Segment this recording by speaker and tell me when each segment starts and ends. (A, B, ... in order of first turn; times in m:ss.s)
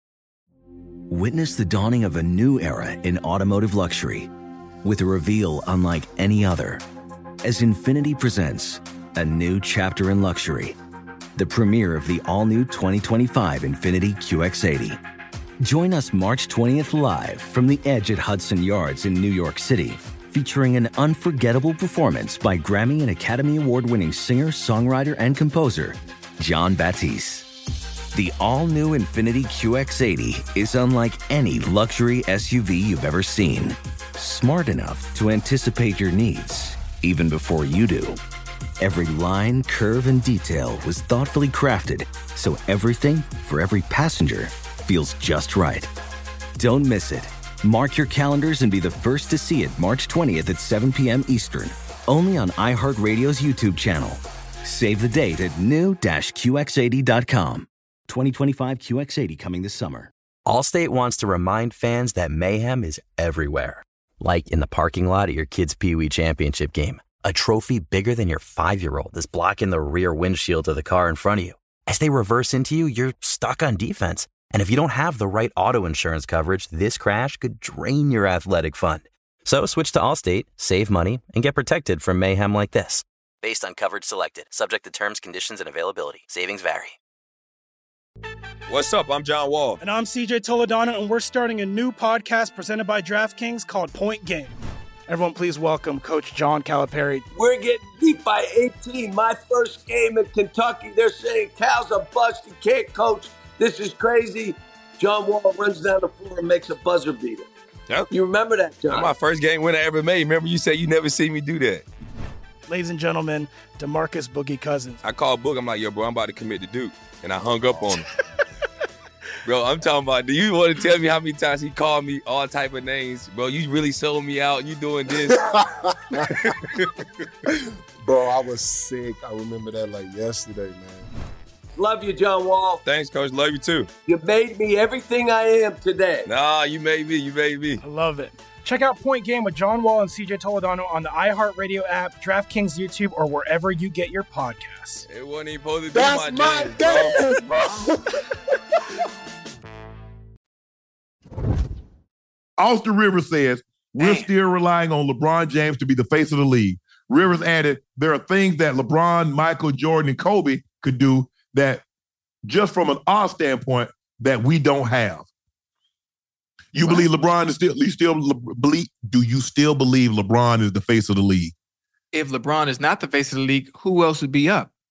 0:01.1-0:04.3 A
0:04.8-0:06.8 A
0:07.4-0:10.8 A
0:11.4-0:15.0 A
0:15.6-0:27.5 A
0:28.1-0:38.2 A
0:38.8-0:45.9 A
0:46.6-1:00.1 A
1:00.4-1:27.0 B
1:28.7-1:29.8 C
1:29.8-1:34.6 D
1:35.1-1:37.2 D
1:37.3-1:47.5 E
1:48.1-1:49.1 E
1:48.9-1:51.8 C
1:52.7-1:55.0 D
1:55.0-1:58.1 C
1:59.4-2:05.5 C
2:08.0-2:11.0 F
2:11.8-2:12.8 E
2:12.8-2:13.9 C
2:14.0-2:16.3 E
2:16.3-2:17.8 C
2:17.8-2:25.0 D
2:25.1-2:27.4 C
2:25.9-2:27.4 F
2:32.6-2:41.8 G
2:34.0-2:34.3 H
2:42.4-2:45.3 G
2:46.7-2:51.5 G
2:46.8-2:47.1 H
2:52.1-2:54.7 H